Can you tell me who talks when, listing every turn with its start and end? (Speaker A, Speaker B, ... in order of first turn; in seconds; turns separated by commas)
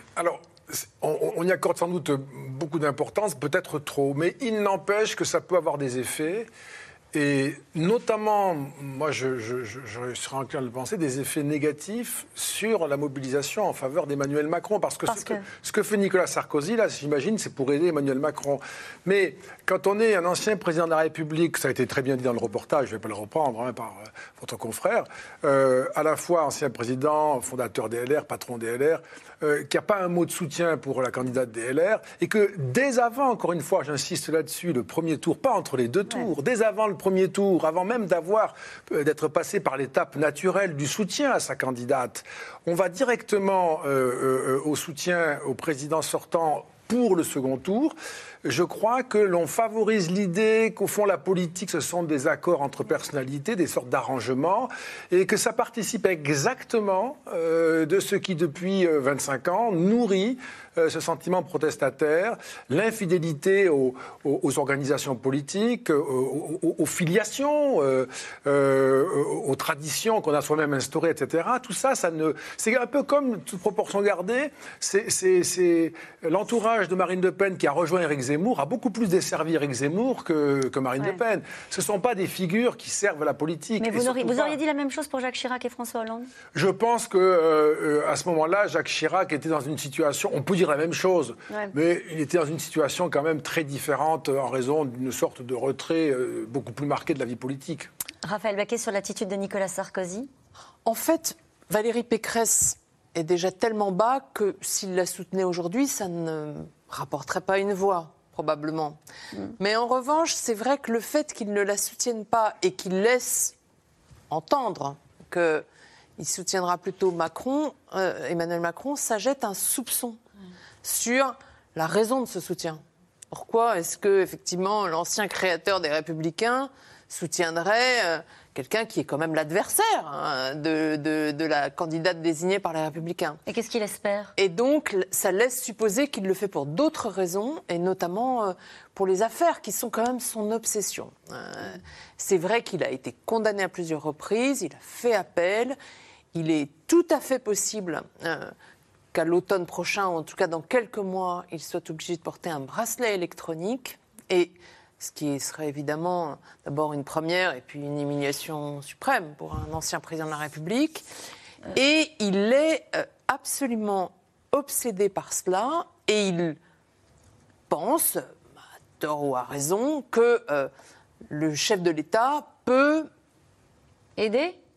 Speaker A: 0.1-6.5, Speaker A: 7.1-84.6, Speaker B: 15.1-15.4, Speaker B: 83.8-86.3, Speaker A: 86.5-97.9, Speaker B: 98.2-100.3, Speaker C: 100.8-109.0, Speaker C: 109.6-113.5, Speaker C: 114.3-115.6, Speaker C: 116.2-120.2, Speaker C: 120.8-133.4, Speaker B: 133.4-134.3, Speaker C: 134.4-145.8, Speaker C: 146.3-148.5, Speaker C: 149.1-161.0, Speaker C: 161.7-166.6, Speaker C: 167.7-168.3, Speaker C: 169.0-170.7, Speaker C: 171.3-173.1, Speaker B: 174.2-174.6